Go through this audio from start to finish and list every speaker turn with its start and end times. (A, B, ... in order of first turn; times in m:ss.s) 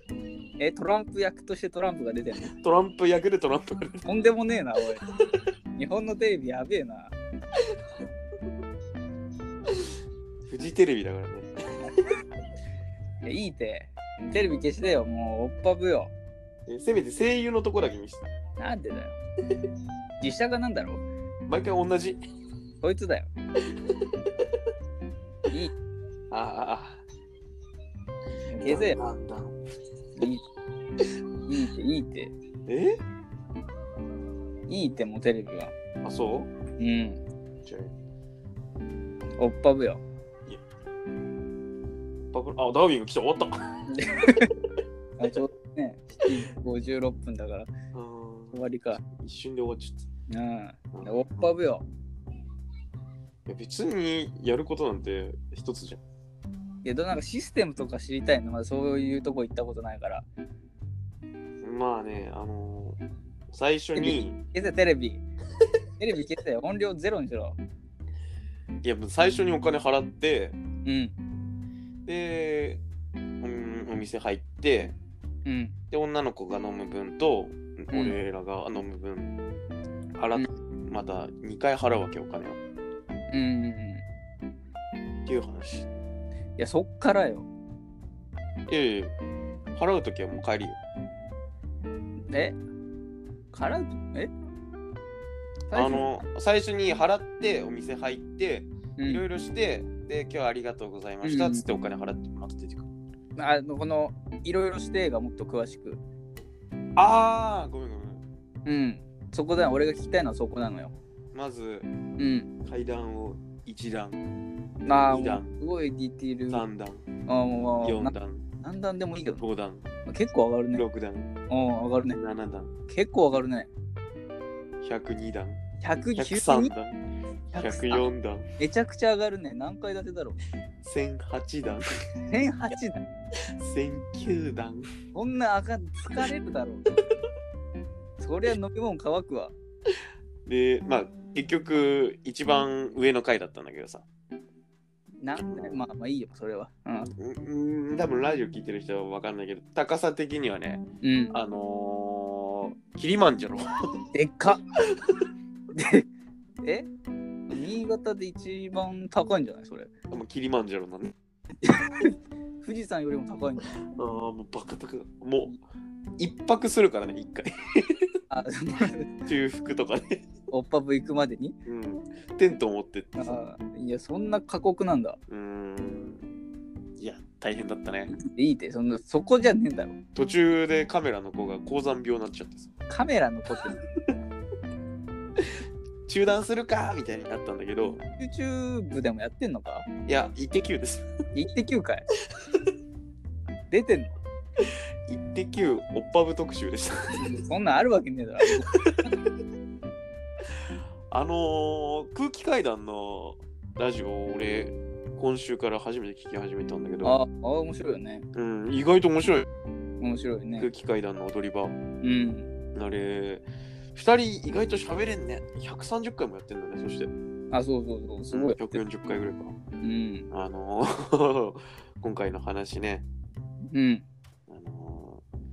0:00.6-0:02.5 A
0:02.5-0:04.1 B
0:04.0-0:05.0 A
0:05.8-0:07.2 A
0:10.5-0:11.5 B
0:13.2-0:16.1 A
0:16.7-0:18.3 B
0:18.6-0:19.2 A
0:20.2-0:21.0 A
0:21.5-0:22.2 B
0:22.8-0:23.3 A
0:26.3-0:27.0 B
0:28.5-0:29.0 A
0:28.6-0:29.6 B
0:30.2-0:30.4 A
0:31.5-0:32.3 A
0:32.7-0:32.9 B
0:34.7-0:35.7 A
0:36.0-0:36.5 B
0:36.8-0:37.2 A
0:37.6-0:37.9 B
0:39.4-0:40.0 A
0:42.3-0:43.7 B
0:43.9-0:44.5 A
0:45.2-0:47.7 A
0:47.9-0:50.1 B
0:48.5-0:49.0 A
0:50.3-0:51.9 A
0:50.9-0:51.5 B
0:53.5-0:56.0 B
0:56.8-1:00.2 A
1:01.6-1:03.0 B
1:03.5-1:04.4 B
1:04.0-1:05.2 A
1:06.0-1:07.6 A
1:08.8-1:10.6 B
1:10.8-1:11.2 A
1:12.1-1:12.8 B
1:13.4-1:15.0 B
1:15.5-1:15.8 A
1:15.9-1:19.4 B
1:17.9-1:18.2 A
1:20.2-1:22.6 B
1:23.3-1:24.0 A
1:25.2-1:25.9 B
1:26.6-1:27.5 A
1:28.7-1:29.2 B
1:29.8-1:30.8 B
1:32.3-1:32.6 A
1:33.5-1:34.3 A
1:35.7-1:36.2 A
1:35.7-1:42.9 B
1:39.0-1:39.2 A
1:41.2-1:41.6 A
1:43.4-1:46.0 A
1:47.0-1:48.2 B
1:48.6-1:50.9 A
1:51.3-1:51.9 B
1:52.2-1:52.5 A
1:52.7-1:54.2 B
1:54.8-1:56.6 A
1:55.0-1:55.6 B
1:56.5-1:57.0 B
1:57.3-1:59.4 A
1:57.8-1:58.4 B
1:59.4-1:59.9 B
2:00.1-2:00.8 A
2:00.7-2:01.3 B
2:01.5-2:02.2 A
2:02.1-2:02.7 B
2:02.9-2:03.7 A
2:04.8-2:05.6 B
2:05.8-2:06.7 A
2:06.2-2:08.4 B
2:07.5-2:10.4 A
2:10.8-2:11.8 B
2:12.3-2:13.0 A
2:13.6-2:14.9 B
2:15.1-2:16.9 A
2:18.2-2:19.5 A
2:20.5-2:24.0 B
2:25.2-2:27.1 A
2:25.4-2:25.9 B
2:27.0-2:33.6 B
2:31.0-2:31.4 A
2:34.1-2:34.6 A
2:35.7-2:36.0 A
2:36.6-2:36.9 A
2:37.5-2:39.9 A
2:40.1-2:41.1 B
2:41.6-2:43.7 A
2:43.9-2:45.6 B
2:46.2-2:48.1 B
2:48.3-2:49.2 A
2:49.2-2:50.2 B
2:50.5-2:51.6 A
2:51.6-2:53.4 B
2:53.2-2:55.2 A
2:55.3-2:56.2 B
2:57.0-2:58.1 B
2:58.1-3:00.0 A
3:00.2-3:02.7 B
3:02.9-3:03.8 A
3:06.1-3:08.0 B
3:08.2-3:09.9 A
3:10.1-3:11.1 B
3:11.3-3:12.1 A
3:13.7-3:14.2 A
3:15.1-3:17.2 B
3:17.2-3:18.7 A
3:18.7-3:19.0 B
3:21.1-3:27.2 B
3:27.0-3:28.2 A
3:28.3-3:29.5 B
3:30.0-3:30.7 A
3:30.6-3:31.8 B
3:32.0-3:32.5 A
3:32.8-3:37.1 B
3:37.5-3:38.8 A
3:38.3-3:39.6 B
3:39.8-3:40.3 A
3:40.3-3:43.1 B
3:43.7-3:44.0 A
3:44.5-3:45.2 B